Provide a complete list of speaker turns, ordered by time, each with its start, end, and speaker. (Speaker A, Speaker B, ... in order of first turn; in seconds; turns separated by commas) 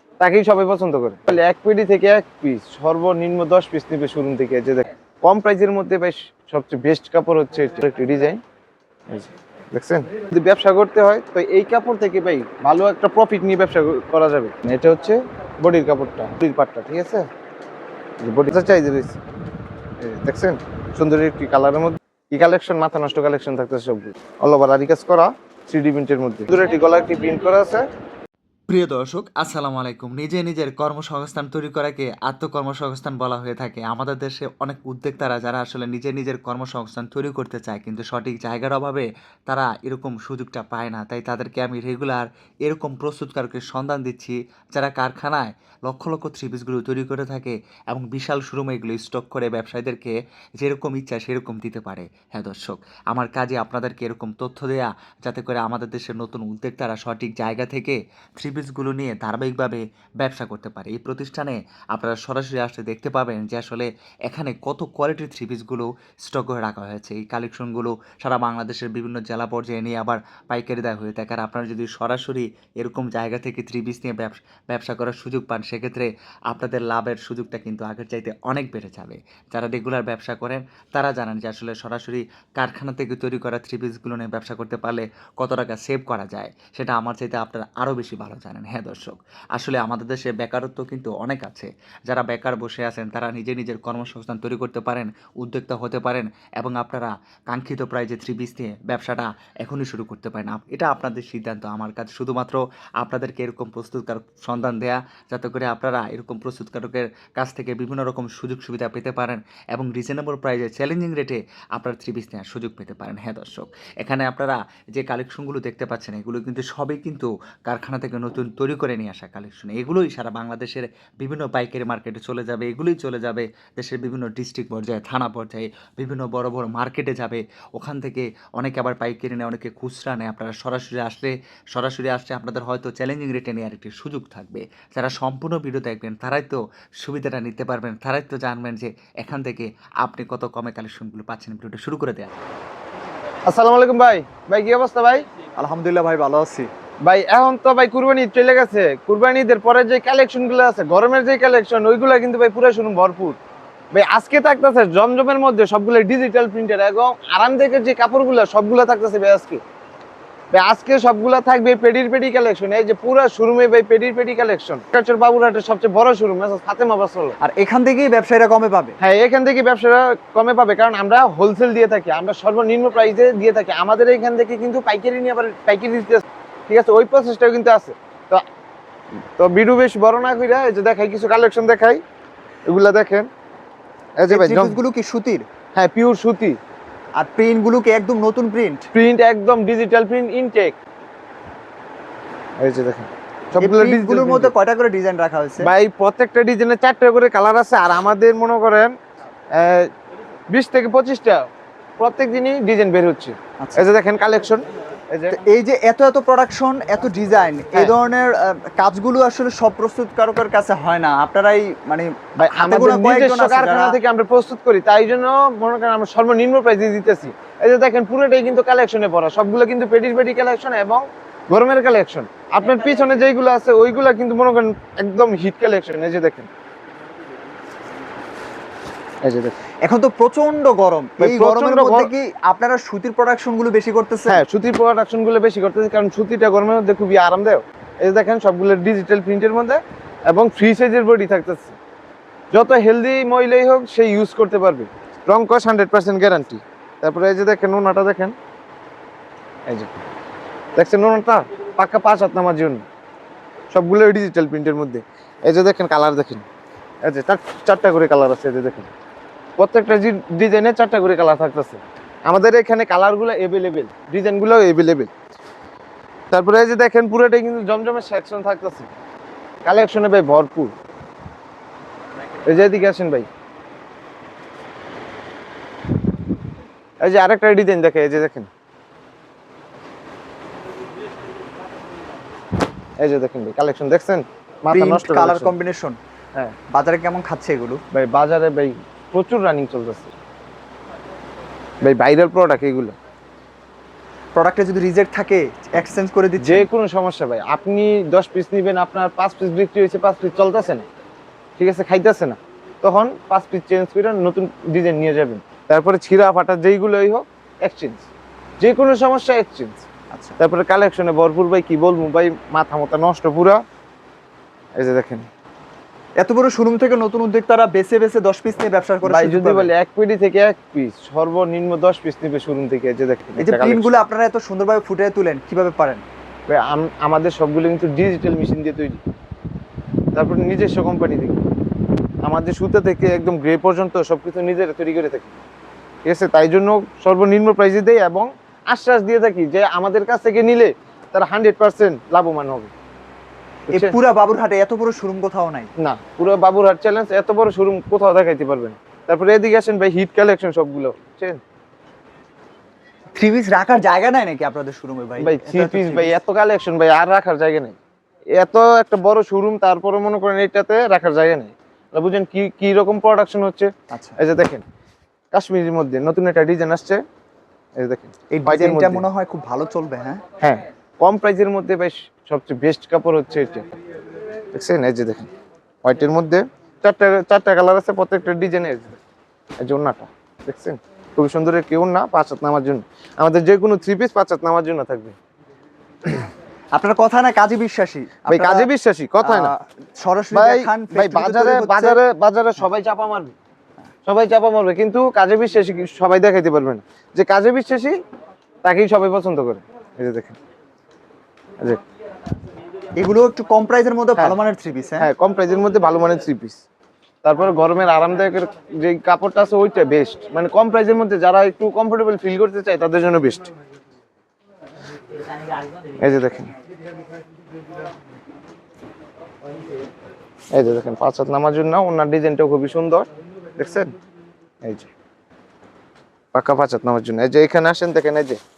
Speaker A: 0.2-8.4, Speaker A: 9.1-17.3, Speaker A: 18.2-19.2, Speaker A: 20.0-27.9, Speaker B: 28.7-142.3, Speaker A: 143.4-145.2, Speaker C: 145.6-146.7, Speaker A: 147.1-153.4, Speaker A: 153.9-159.6, Speaker A: 160.5-167.4, Speaker C: 167.4-169.0, Speaker A: 169.0-178.4, Speaker A: 179.4-182.0, Speaker A: 182.7-183.3, Speaker A: 184.2-184.8, Speaker C: 184.3-185.4, Speaker A: 185.8-186.6, Speaker C: 187.2-188.9, Speaker A: 188.9-190.8, Speaker A: 192.6-194.5, Speaker C: 193.6-195.7, Speaker A: 195.6-198.9, Speaker A: 199.6-199.9, Speaker A: 200.5-201.4, Speaker A: 202.0-205.4, Speaker C: 203.6-203.8, Speaker C: 205.3-214.0, Speaker A: 212.4-226.5, Speaker A: 229.2-229.6, Speaker C: 229.8-234.4, Speaker A: 231.2-232.1, Speaker A: 234.3-241.8, Speaker A: 242.5-248.3, Speaker A: 250.8-252.8, Speaker A: 253.7-256.4, Speaker A: 257.0-258.9, Speaker A: 259.6-265.1, Speaker A: 266.3-268.9, Speaker A: 269.6-270.7, Speaker A: 272.4-273.3, Speaker A: 277.0-278.5, Speaker A: 283.0-285.5, Speaker C: 284.7-286.0, Speaker C: 286.7-287.8, Speaker A: 287.9-290.1, Speaker A: 291.8-292.9, Speaker C: 294.4-296.7, Speaker A: 296.4-300.9, Speaker A: 301.6-308.1, Speaker A: 308.6-309.8, Speaker C: 310.1-310.4, Speaker A: 310.4-313.6, Speaker A: 314.8-315.3, Speaker C: 316.2-319.7, Speaker A: 319.0-323.9, Speaker C: 323.4-326.0, Speaker A: 326.5-329.0, Speaker A: 330.1-331.4, Speaker A: 332.2-335.4, Speaker A: 336.1-342.7, Speaker C: 343.7-345.7, Speaker A: 343.7-344.0, Speaker A: 345.8-351.4, Speaker C: 353.2-356.2, Speaker A: 355.2-357.8, Speaker A: 358.4-364.6, Speaker C: 363.9-364.2, Speaker A: 365.3-367.0, Speaker A: 367.8-369.1, Speaker C: 368.3-370.2, Speaker A: 370.4-373.7, Speaker A: 374.5-375.3, Speaker A: 375.8-379.0, Speaker A: 379.6-385.1, Speaker C: 386.7-388.7, Speaker A: 388.3-389.5, Speaker C: 389.2-392.0, Speaker A: 390.3-393.3, Speaker A: 394.1-398.0, Speaker A: 398.6-400.4, Speaker C: 403.0-405.1, Speaker A: 405.0-406.6, Speaker A: 407.2-413.5, Speaker A: 416.0-416.5, Speaker A: 420.5-423.9, Speaker A: 424.6-424.9, Speaker A: 426.3-428.4